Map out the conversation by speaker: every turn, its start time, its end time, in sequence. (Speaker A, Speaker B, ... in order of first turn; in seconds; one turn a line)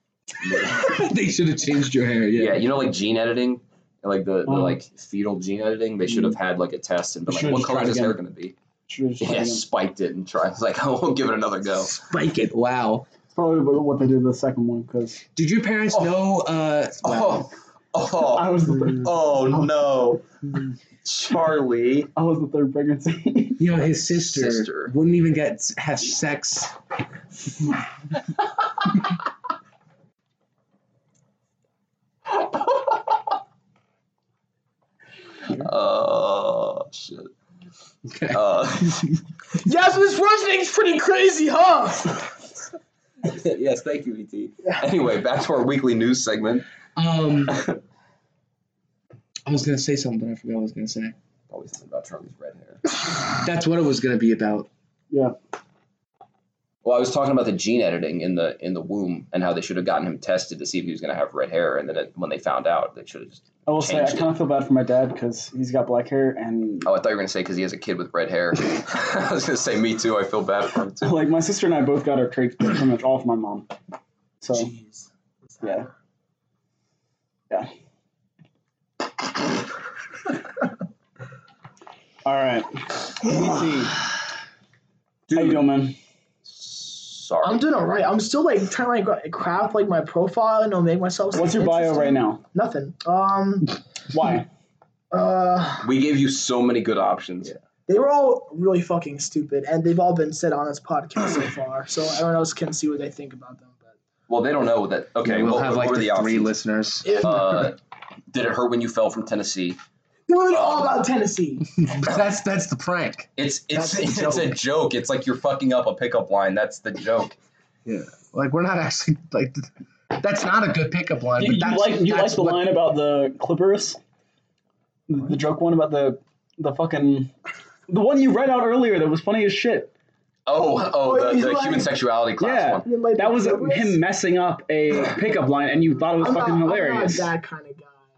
Speaker A: 0.4-0.8
Speaker B: 0.5-2.7
Speaker A: 2.4-8.6
Speaker C: 4.5-4.8
Speaker C: 7.3-8.2
Speaker C: 8.9-9.6
Speaker A: 9.2-11.9
Speaker B: 11.9-13.1
Speaker C: 13.3-15.2
Speaker B: 15.4-17.5
Speaker A: 17.0-20.2
Speaker C: 18.2-19.3
Speaker A: 21.0-22.1
Speaker C: 22.2-23.6
Speaker B: 23.6-26.8
Speaker A: 24.1-24.9
Speaker A: 35.5-37.3
Speaker B: 38.0-39.0
Speaker A: 38.3-39.1
Speaker D: 39.6-42.3
Speaker A: 43.2-46.7
Speaker B: 47.0-47.6
Speaker A: 47.5-47.8
Speaker B: 49.5-51.1
Speaker A: 51.5-52.8
Speaker B: 53.3-54.7
Speaker A: 56.8-64.3
Speaker C: 63.7-66.9
Speaker A: 66.8-71.2
Speaker C: 71.0-73.7
Speaker C: 74.4-74.7
Speaker D: 75.6-75.9
Speaker C: 75.6-75.9
Speaker C: 82.2-84.0
Speaker A: 85.3-85.7
Speaker C: 85.3-86.0
Speaker A: 86.5-87.6
Speaker D: 87.4-93.8
Speaker C: 91.3-92.4
Speaker C: 94.1-94.5
Speaker D: 95.1-95.9
Speaker A: 95.8-97.5
Speaker D: 97.9-103.9
Speaker A: 104.3-106.5
Speaker B: 105.2-107.6
Speaker A: 107.1-107.8
Speaker A: 108.3-109.8
Speaker D: 110.3-111.9
Speaker A: 110.5-111.0
Speaker B: 111.9-113.3
Speaker A: 113.4-117.3
Speaker B: 114.0-114.4
Speaker B: 117.9-122.7
Speaker C: 121.4-124.0
Speaker C: 125.1-127.3
Speaker C: 127.9-129.9
Speaker A: 130.5-132.9
Speaker D: 131.0-131.9
Speaker C: 132.4-137.3
Speaker D: 132.8-134.0
Speaker D: 136.2-138.0